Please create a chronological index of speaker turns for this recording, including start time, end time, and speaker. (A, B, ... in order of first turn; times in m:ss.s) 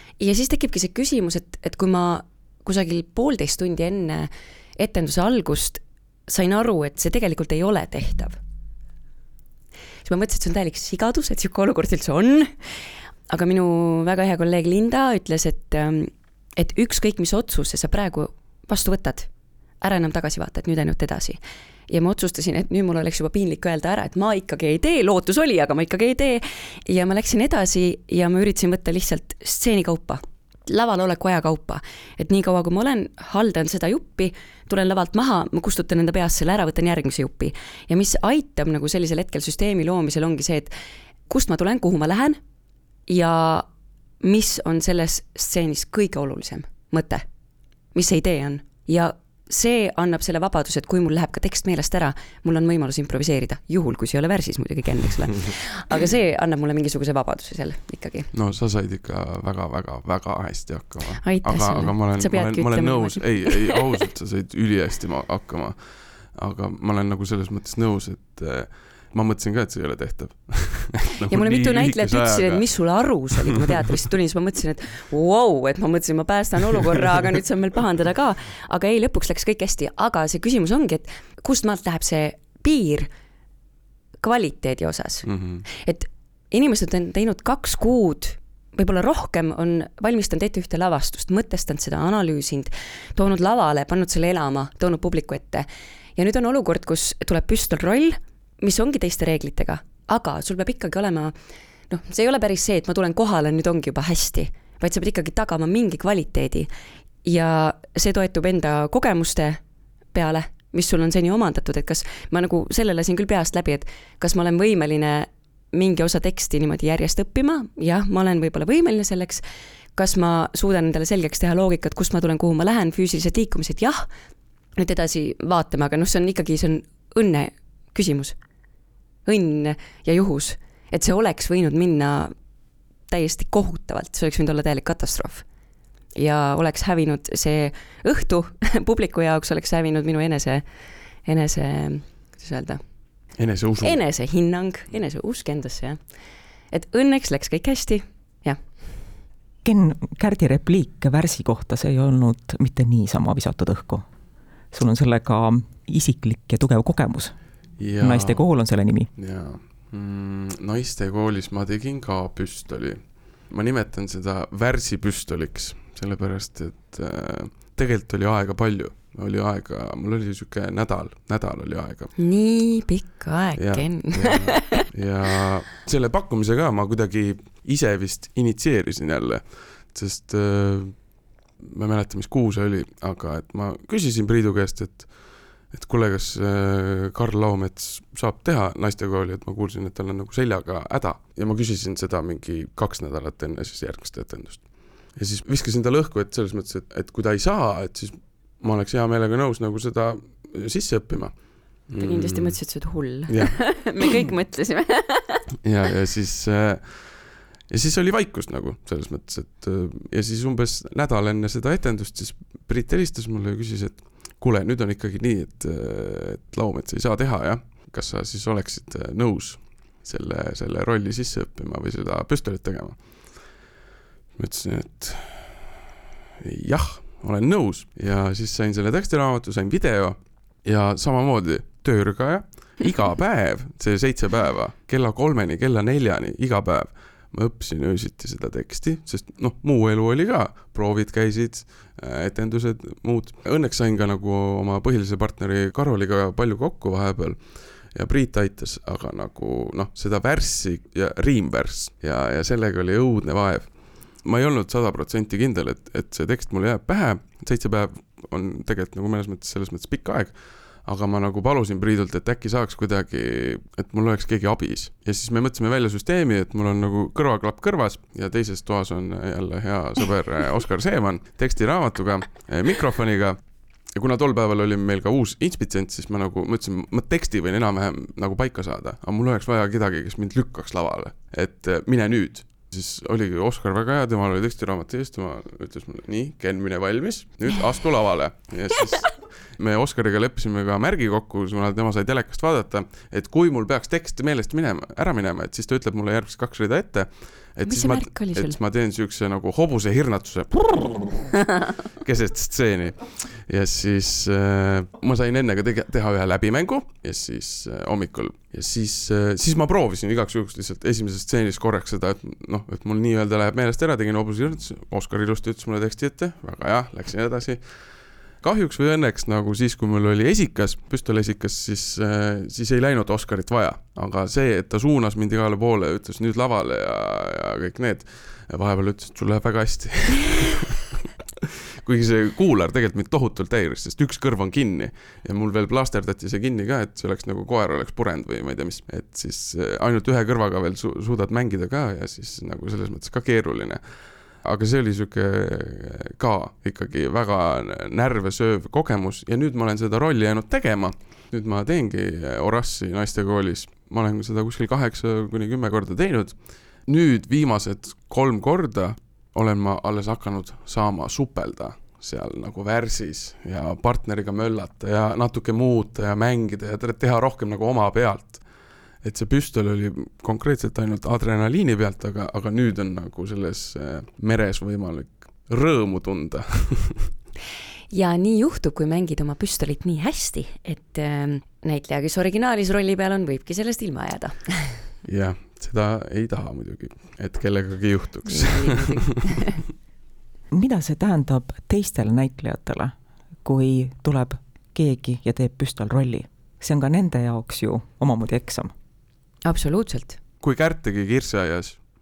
0:00.2-0:08.4 A
0:10.0-0:19.3 A
0:19.8-0:40.7 A
0:41.3-0:42.4 A
0:43.1-0:43.7 A
0:44.2-0:47.2 A
0:47.9-0:58.3 A
0:58.3-1:05.8 B
1:01.2-1:03.8 A
1:06.3-1:12.9 B
1:11.3-1:23.1 A
1:24.2-1:41.4 A
1:25.3-1:25.6 B
1:41.9-1:46.7 A
1:47.2-1:49.6 A
1:50.1-1:59.4 A
2:00.0-2:04.1 A
2:04.8-2:08.4 A
2:09.3-2:12.3 A
2:13.1-2:15.5 A
2:16.2-2:20.7 A
2:21.2-2:22.8 A
2:23.4-2:24.0 B
2:23.8-2:26.1 A
2:26.7-2:28.6 A
2:29.6-2:34.0 C
2:34.7-2:37.4 C
2:37.8-2:38.5 B
2:37.9-2:39.1 C
2:39.2-2:52.1 B
2:52.2-2:54.8 A
2:53.6-3:01.1 B
3:01.6-3:05.2 B
3:05.7-3:22.6 B
3:22.0-3:25.5 A
3:23.3-3:23.6 B
3:25.6-3:43.3 B
3:44.4-3:45.7 B
3:46.4-4:33.4 B
4:34.0-5:17.7 B
4:57.6-4:58.6 A
5:18.4-5:43.8 B
5:44.4-6:08.4 B
6:09.0-6:17.1 B
6:17.9-6:24.8 A
6:25.0-6:29.1 B
6:28.3-6:29.6 A
6:30.5-6:38.7 C
6:39.4-6:40.2 A
6:40.4-6:41.8 B